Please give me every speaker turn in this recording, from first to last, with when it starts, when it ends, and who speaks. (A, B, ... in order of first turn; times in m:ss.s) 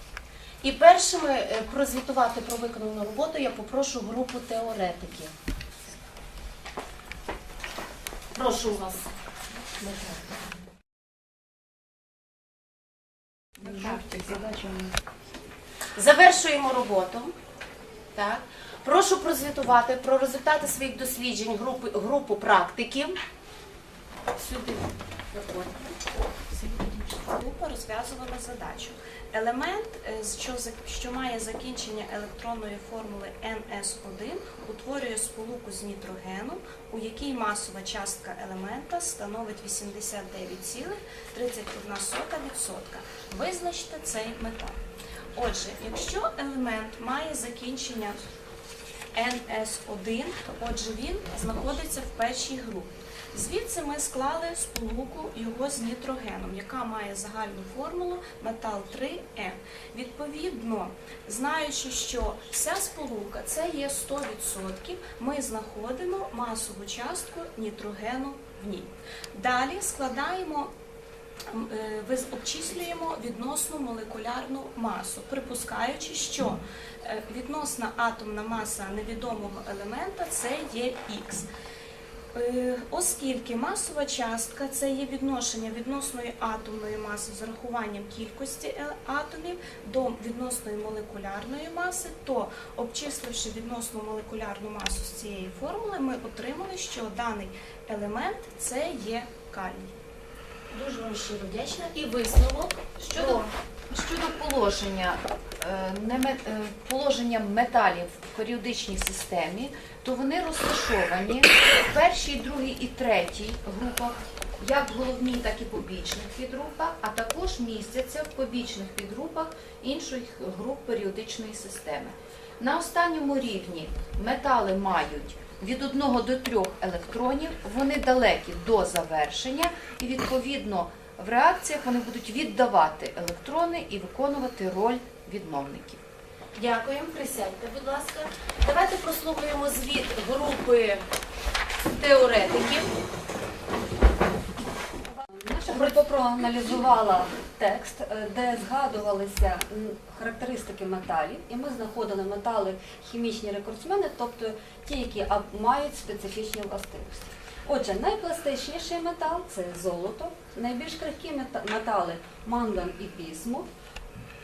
0:00.6-0:05.3 A
0:08.4-0:09.1 A
0:09.8-0:10.2 A
0:13.6-0:15.0 B
0:16.0-0:17.3 A
0:18.2-0:23.2 A
0:24.4-0:25.9 A
0:26.5-0:44.8 C
0:45.4-0:48.2 C
0:49.2-1:10.7 C
1:11.5-1:21.5 C
1:22.4-1:39.9 C
1:40.7-1:43.4 A
1:43.0-2:16.0 B
2:16.6-2:21.0 A
2:21.9-2:22.9 A
2:25.1-2:43.7 D
2:25.7-2:26.0 A